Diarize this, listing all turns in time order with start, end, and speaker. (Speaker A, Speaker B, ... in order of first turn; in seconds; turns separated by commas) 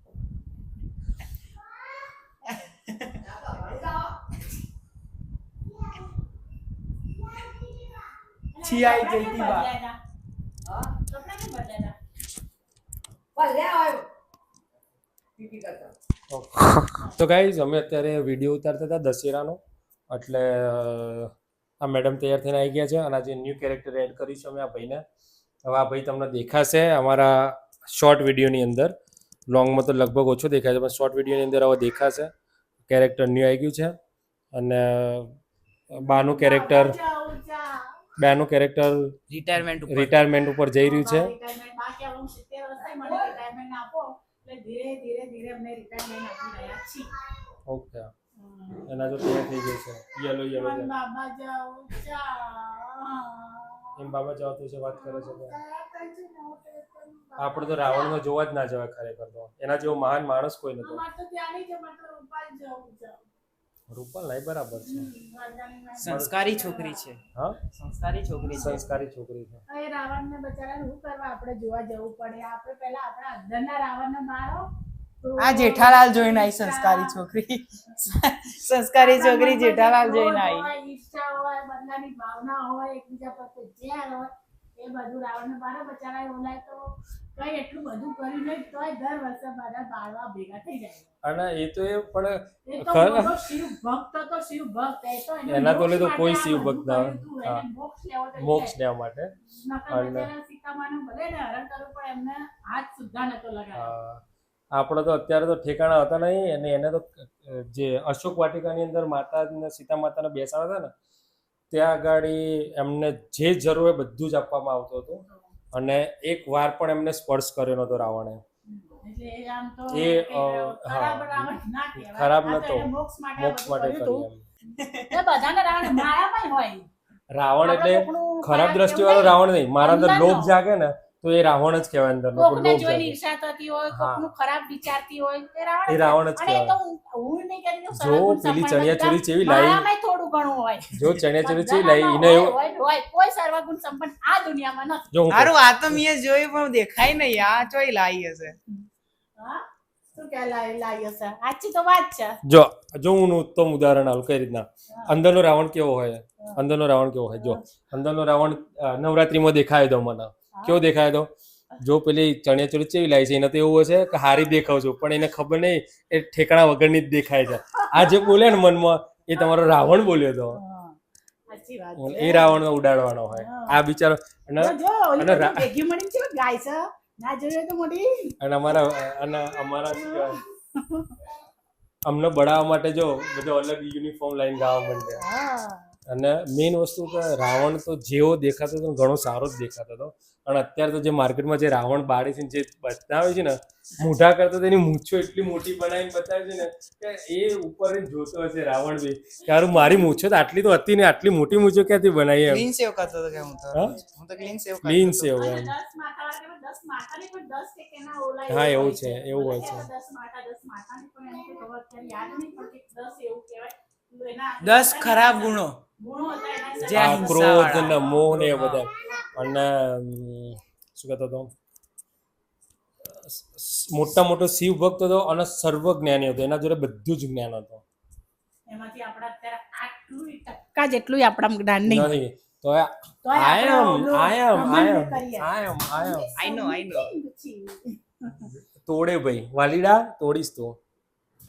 Speaker A: 2.7-3.1, Speaker B: 3.2-4.1, Speaker C: 8.5-10.0, Speaker A: 8.6-9.7, Speaker C: 11.1-12.0, Speaker B: 13.3-14.1, Speaker B: 15.4-15.9, Speaker D: 16.3-19.6, Speaker D: 20.1-25.0, Speaker D: 25.6-28.9, Speaker D: 29.5-32.3, Speaker D: 32.9-34.0, Speaker D: 34.5-35.3, Speaker D: 35.9-37.0, Speaker C: 36.0-37.9, Speaker D: 38.2-39.1, Speaker A: 39.3-40.1, Speaker D: 39.9-41.3, Speaker C: 40.8-47.1, Speaker D: 47.7-48.1, Speaker C: 48.4-48.9, Speaker D: 48.9-50.9, Speaker C: 50.5-53.9, Speaker D: 54.0-55.5, Speaker C: 54.9-58.2, Speaker D: 57.4-61.0, Speaker C: 60.8-63.2, Speaker D: 63.9-65.1, Speaker C: 64.9-67.1, Speaker A: 66.0-67.2, Speaker D: 66.0-66.4, Speaker A: 67.7-68.8, Speaker D: 68.5-69.6, Speaker C: 69.7-74.7, Speaker C: 75.2-77.2, Speaker A: 75.4-80.7, Speaker C: 79.0-91.1, Speaker D: 91.2-93.4, Speaker C: 92.7-98.7, Speaker D: 95.5-97.6, Speaker D: 98.4-99.3, Speaker C: 99.5-103.9, Speaker D: 99.9-100.3, Speaker D: 103.7-104.2, Speaker D: 104.7-110.9, Speaker D: 111.7-118.4, Speaker C: 118.7-124.3, Speaker D: 119.9-124.4, Speaker A: 124.8-125.1, Speaker C: 125.1-126.9, Speaker D: 127.3-133.2, Speaker C: 127.6-130.5, Speaker C: 132.4-145.1, Speaker D: 133.9-134.3, Speaker D: 135.9-136.7, Speaker D: 137.9-139.8, Speaker D: 140.9-142.6, Speaker D: 145.1-145.5, Speaker A: 145.3-148.6, Speaker C: 149.4-149.6, Speaker C: 150.1-152.4, Speaker D: 152.4-161.3, Speaker C: 160.6-160.8, Speaker D: 161.8-170.6, Speaker C: 170.5-171.0, Speaker C: 171.5-172.6, Speaker D: 172.0-175.7, Speaker C: 173.3-173.8, Speaker C: 174.6-178.3, Speaker D: 178.4-180.4, Speaker C: 180.2-181.1, Speaker D: 182.1-185.2, Speaker C: 185.2-185.8, Speaker D: 186.1-202.7, Speaker A: 202.5-205.4, Speaker D: 203.7-204.0, Speaker D: 204.8-205.7, Speaker C: 205.4-218.1, Speaker D: 208.5-209.9, Speaker A: 214.6-215.8, Speaker A: 216.8-218.8, Speaker D: 216.9-221.5, Speaker D: 223.2-227.8, Speaker C: 228.7-232.1, Speaker D: 231.9-236.3, Speaker C: 233.2-238.5, Speaker A: 236.4-237.1, Speaker D: 238.4-240.8